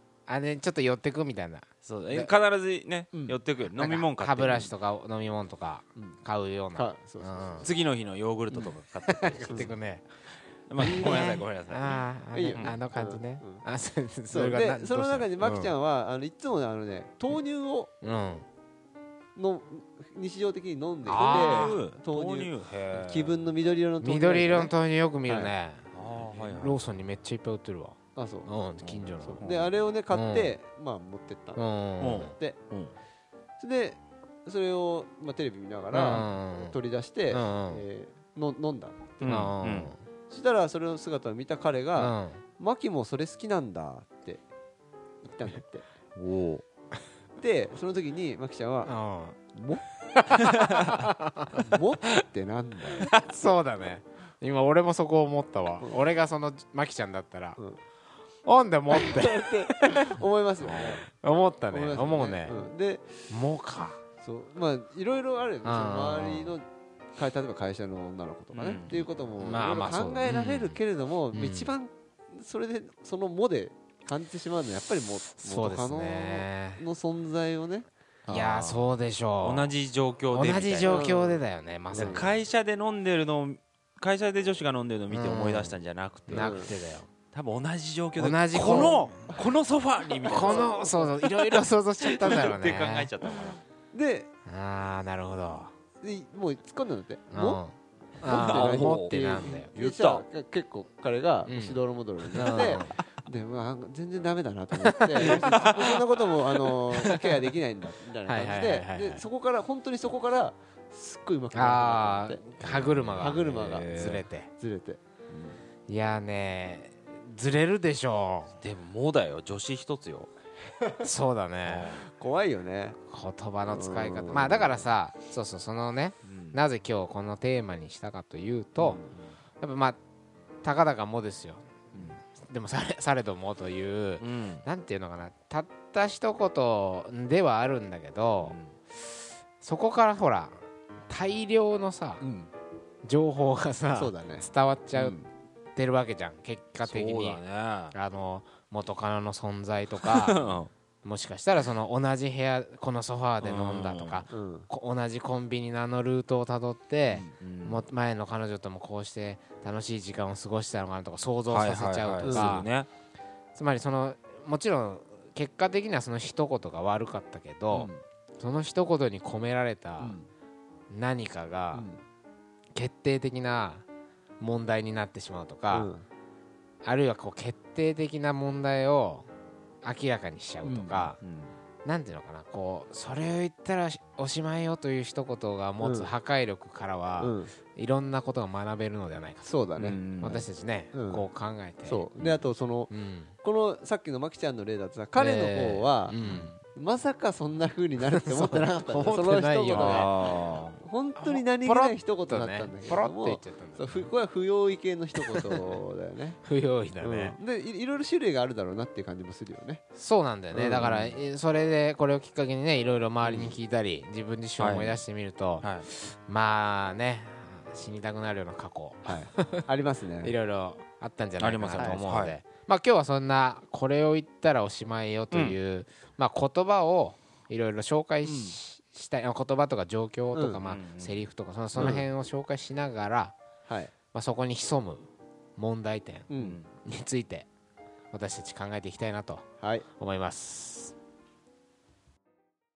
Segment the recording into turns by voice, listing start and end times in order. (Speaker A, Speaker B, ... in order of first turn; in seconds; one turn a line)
Speaker A: 0.3-2.3
Speaker B: 1.8-4.7
Speaker C: 3.1-3.4
Speaker A: 3.7-7.7
Speaker C: 6.7-7.7
Speaker B: 7.6-9.8
Speaker A: 9.1-10.1
Speaker C: 9.5-9.8
Speaker B: 10.7-12.8
Speaker A: 10.8-15.7
Speaker C: 10.8-11.2
Speaker C: 12.3-13.6
Speaker C: 14.3-17.9
Speaker A: 18.0-18.5
Speaker C: 19.4-24.7
Speaker A: 21.1-21.8
Speaker B: 21.1-23.5
Speaker A: 24.0-29.5
Speaker C: 25.3-25.5
Speaker B: 25.9-26.8
Speaker C: 28.2-28.5
Speaker B: 28.8-29.7
Speaker C: 29.4-31.6
Speaker A: 30.1-30.6
Speaker A: 31.6-32.4
Speaker B: 32.0-32.9
Speaker C: 33.6-39.4
Speaker A: 35.9-36.8
Speaker A: 37.3-37.9
Speaker B: 39.2-39.9
Speaker A: 39.3-40.0
Speaker C: 40.3-44.4
Speaker A: 42.0-42.4
Speaker C: 45.2-45.9
Speaker B: 46.2-46.6
Speaker C: 47.4-48.9
Speaker A: 48.9-49.4
Speaker C: 49.5-49.8
Speaker A: 50.2-51.7
Speaker B: 50.6-50.9
Speaker C: 51.6-53.1
Speaker B: 53.0-53.3
Speaker A: 53.1-57.6
Speaker A: 58.4-60.2
Speaker C: 58.9-61.0
Speaker A: 61.0-62.6
Speaker C: 61.7-63.3
Speaker A: 63.3-64.0
Speaker C: 64.2-66.7
Speaker A: 65.6-66.5
Speaker C: 67.2-77.9
Speaker B: 68.5-69.1
Speaker A: 69.4-70.8
Speaker A: 71.3-71.7
Speaker A: 75.3-76.8
Speaker B: 78.3-81.1
Speaker A: 78.3-79.7
Speaker A: 80.3-82.3
Speaker C: 80.9-82.3
Speaker B: 82.0-86.7
Speaker A: 85.1-85.8
Speaker A: 86.3-87.1
Speaker C: 86.3-86.7
Speaker B: 87.3-93.6
Speaker A: 88.2-89.2
Speaker C: 88.6-89.5
Speaker C: 90.0-91.1
Speaker A: 90.3-93.1
Speaker C: 93.9-94.3
Speaker A: 94.5-95.7
Speaker C: 96.0-97.6
Speaker A: 97.3-99.7
Speaker B: 98.2-100.2
Speaker C: 98.2-112.5
Speaker A: 101.5-101.8
Speaker B: 102.3-102.8
Speaker A: 102.3-103.0
Speaker B: 105.0-107.1
Speaker A: 106.9-107.3
Speaker A: 108.2-109.2
Speaker A: 111.5-114.5
Speaker B: 112.6-114.2
Speaker C: 113.2-115.0
Speaker B: 115.3-115.6
Speaker A: 115.9-118.5
Speaker B: 118.6-120.3
Speaker A: 121.0-122.0
Speaker B: 121.6-122.0
Speaker C: 122.0-123.0
Speaker A: 123.1-129.0
Speaker C: 123.7-124.8
Speaker B: 126.2-126.6
Speaker C: 128.8-129.1
Speaker A: 129.6-130.0
Speaker A: 130.6-131.7
Speaker A: 132.2-138.6
Speaker B: 134.2-134.7
Speaker B: 138.4-138.7
Speaker A: 139.6-142.2
Speaker C: 142.2-142.5
Speaker A: 143.1-145.2
Speaker C: 143.9-145.3
Speaker A: 145.8-150.5
Speaker B: 146.8-147.9
Speaker B: 150.0-150.7
Speaker A: 151.0-162.7
Speaker B: 153.4-154.3
Speaker C: 154.3-154.7
Speaker B: 157.4-157.9
Speaker B: 161.5-162.9
Speaker C: 162.2-162.6
Speaker A: 163.5-170.2
Speaker C: 167.7-168.0
Speaker C: 170.0-170.3
Speaker A: 170.9-171.9
Speaker C: 171.7-172.0
Speaker A: 172.7-173.8
Speaker A: 174.4-175.9
Speaker C: 175.7-176.1
Speaker A: 176.8-179.3
Speaker A: 179.8-181.2
Speaker C: 180.6-181.1
Speaker B: 181.2-181.5
Speaker A: 181.8-189.6
Speaker C: 185.8-186.1
Speaker C: 187.2-187.5
Speaker C: 189.4-190.0
Speaker B: 189.8-190.5
Speaker A: 190.2-192.1
Speaker C: 190.9-191.3
Speaker C: 191.8-192.9
Speaker A: 192.9-193.3
Speaker C: 193.4-200.1
Speaker A: 195.2-196.6
Speaker B: 196.2-196.5
Speaker A: 198.2-200.3
Speaker B: 199.7-200.8
Speaker C: 200.8-206.4
Speaker A: 201.2-204.1
Speaker A: 205.2-205.5
Speaker A: 206.4-207.4
Speaker C: 207.0-209.8
Speaker A: 209.9-219.7
Speaker C: 210.5-211.2
Speaker C: 213.2-213.5
Speaker B: 214.6-215.0
Speaker B: 215.6-215.9
Speaker C: 219.1-220.3
Speaker A: 220.2-233.4
Speaker B: 221.4-222.4
Speaker B: 225.3-225.6
Speaker C: 228.2-228.6
Speaker C: 230.3-230.6
Speaker B: 230.6-231.3
Speaker C: 231.8-232.1
Speaker C: 233.7-233.9
Speaker A: 234.1-236.3
Speaker C: 236.3-236.6
Speaker B: 236.4-236.7
Speaker A: 236.8-237.5
Speaker A: 238.1-240.9
Speaker C: 239.6-239.9